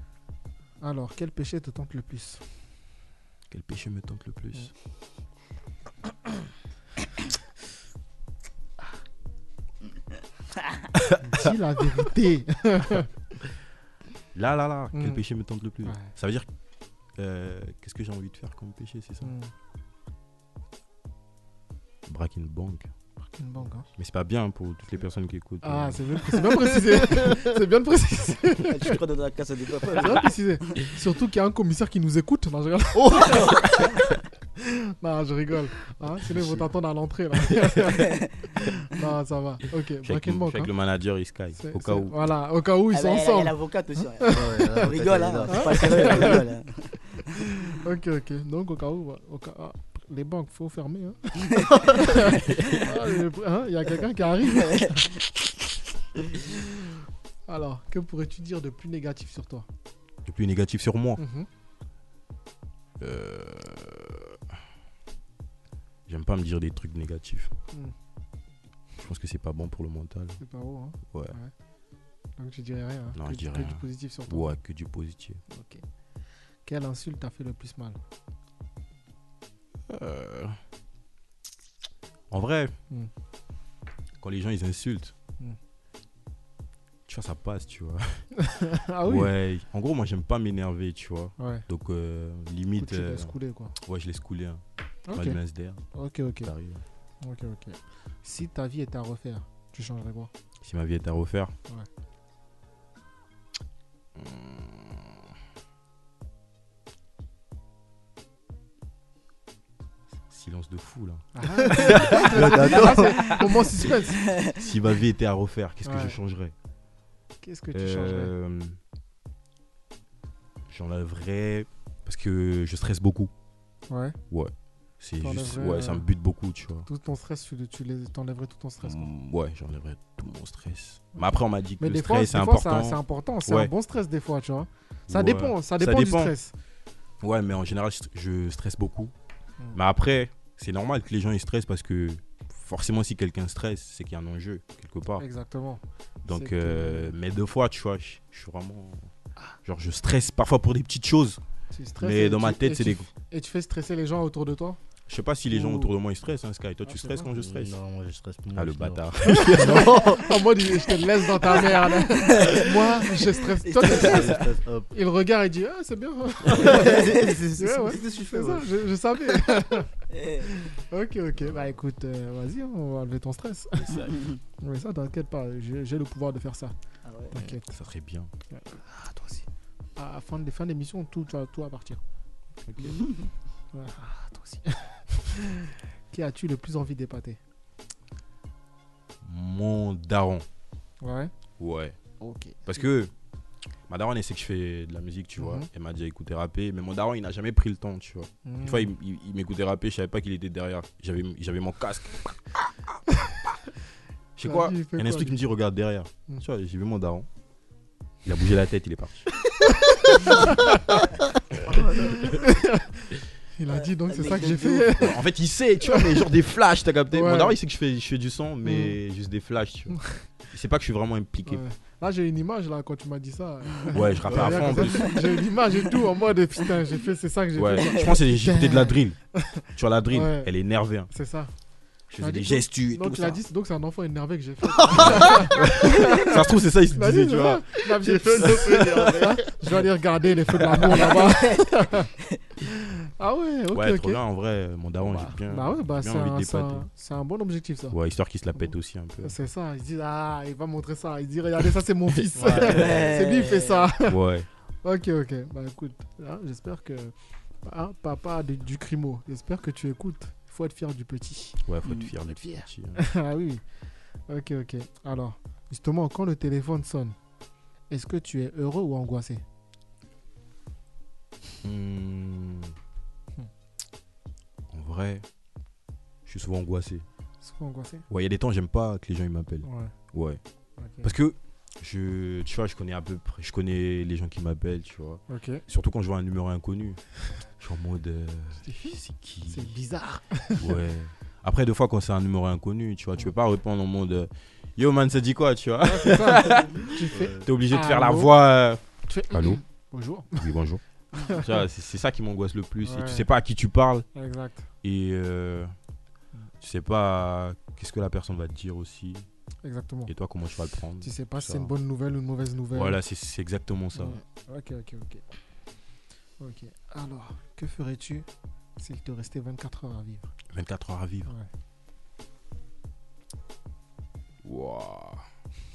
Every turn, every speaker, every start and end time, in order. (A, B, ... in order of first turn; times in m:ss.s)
0:00.8-0:02.4 A
0:03.5-0:04.7 B
0:11.1-0:11.4 B
0:11.2-0:13.1 A
0:14.3-0:16.5 B
0:14.9-0:15.2 A
0:15.8-0:16.1 A
0:17.2-0:19.3 B
0:19.2-0:19.5 A
0:22.0-0:22.9 B
0:23.2-0:23.9 A
0:24.0-0:26.2 B
0:25.6-0:29.0 A
0:28.7-0:30.3 C
0:29.9-0:33.9 A
0:33.2-0:33.8 C
0:34.6-0:40.7 A
0:36.4-0:36.6 D
0:40.0-0:42.1 B
0:41.6-0:43.5 A
0:42.9-0:47.0 C
0:44.2-0:44.7 A
0:44.3-0:46.3 D
0:45.5-0:46.4 A
0:47.6-0:55.1 A
0:54.6-0:55.0 C
0:56.3-0:56.6 A
0:57.5-0:59.6 A
1:00.2-1:01.2 B
1:01.2-1:01.5 A
1:03.0-1:04.4 B
1:06.1-1:07.5 B
1:09.0-1:10.4 B
1:10.4-1:11.5 A
1:11.1-1:11.4 B
1:12.4-1:14.5 A
1:13.1-1:15.4 B
1:15.5-1:15.8 A
1:16.6-1:18.0 A
1:19.9-1:20.6 B
1:22.3-1:22.7 B
1:24.2-1:25.1 B
1:27.1-1:28.3 B
1:28.4-1:29.3 A
1:29.0-1:35.8 B
1:31.4-1:31.6 A
1:32.8-1:33.7 A
1:35.1-1:35.4 A
1:35.9-1:36.5 A
1:36.4-1:36.8 B
1:37.2-1:40.3 A
1:40.6-1:41.5 B
1:44.1-1:45.2 B
1:50.3-1:53.4 B
1:51.3-1:54.3 A
1:51.7-1:53.3 D
1:54.5-1:56.5 B
1:55.8-1:56.2 A
1:57.4-1:58.3 A
1:57.7-1:58.8 B
2:00.7-2:03.3 B
2:03.9-2:04.2 A
2:04.3-2:06.9 B
2:05.2-2:06.1 A
2:06.8-2:09.1 A
2:08.8-2:13.7 B
2:11.2-2:16.5 A
2:15.1-2:16.3 B
2:17.2-2:19.1 B
2:19.7-2:25.2 B
2:25.2-2:27.1 A
2:26.2-2:29.1 B
2:29.6-2:31.4 B
2:31.7-2:34.8 A
2:32.0-2:33.1 B
2:35.1-2:37.7 B
2:35.5-2:35.9 A
2:36.8-2:37.3 A
2:37.4-2:40.4 D
2:38.5-2:40.0 B
2:39.4-2:49.9 A
2:41.7-2:43.0 C
2:43.6-2:44.4 C
2:43.8-2:44.9 D
2:46.5-2:48.9 D
2:46.7-2:47.3 C
2:50.1-2:50.5 C
2:50.4-2:56.7 A
2:53.8-2:54.2 B
2:57.0-2:57.4 C
2:57.3-2:57.7 A
2:57.4-2:58.3 B
2:58.5-3:02.0 A
3:02.6-3:03.1 B
3:03.7-3:07.4 A
3:09.2-3:10.4 B
3:11.0-3:11.3 A
3:11.6-3:12.0 B
3:12.2-3:12.8 A
3:12.6-3:13.1 B
3:13.9-3:22.4 B
3:15.4-3:15.7 A
3:18.4-3:18.9 A
3:24.4-3:27.3 B
3:24.4-3:25.4 A
3:28.2-3:29.3 B
3:29.6-3:31.0 A
3:31.7-3:32.2 C
3:32.2-3:35.2 A
3:33.7-3:35.0 C
3:35.0-3:41.6 B
3:35.8-3:36.2 A
3:37.1-3:37.6 A
3:38.6-3:39.0 A
3:41.4-3:50.5 A
3:43.9-3:45.2 B
3:47.6-3:49.2 B
3:49.7-3:51.1 B
3:51.1-3:51.5 A
3:52.1-3:53.4 B
3:52.2-4:02.1 A
3:55.0-3:57.8 B
3:58.0-3:59.5 D
3:58.4-3:58.7 B
4:00.6-4:00.8 B
4:00.8-4:02.4 C
4:02.6-4:04.2 A
4:03.7-4:06.8 B
4:05.0-4:08.0 A
4:07.9-4:09.3 B
4:09.2-4:14.2 A
4:12.1-4:13.1 B
4:12.5-4:13.9 C
4:14.0-4:14.5 B
4:14.8-4:17.1 A
4:17.6-4:21.6 A
4:21.6-4:23.0 B
4:22.3-4:23.6 A
4:24.3-4:27.2 A
4:27.9-4:29.4 A
4:31.6-4:32.7 B
4:34.7-4:35.2 B
4:36.2-4:37.0 B
4:37.4-4:38.0 A
4:38.1-4:40.4 B
4:39.6-4:39.9 A
4:40.8-4:41.1 A
4:41.0-4:47.0 B
4:45.3-4:45.6 A
4:47.6-4:49.7 B
4:48.6-4:49.0 A
4:49.5-4:50.7 A
4:50.6-4:56.8 B
4:55.8-4:58.3 A
4:57.1-4:57.4 D
4:57.4-4:59.6 B
4:59.1-5:00.4 A
5:00.3-5:04.1 B
5:01.2-5:01.5 A
5:02.8-5:03.3 A
5:04.1-5:04.6 A
5:04.8-5:05.7 B
5:06.6-5:09.3 B
5:09.6-5:10.1 A
5:10.1-5:11.7 B
5:11.0-5:13.0 A
5:12.7-5:14.2 B
5:13.9-5:15.2 A
5:16.4-5:18.3 A
5:18.8-5:20.3 A
5:20.5-5:21.3 B
5:24.4-5:25.2 B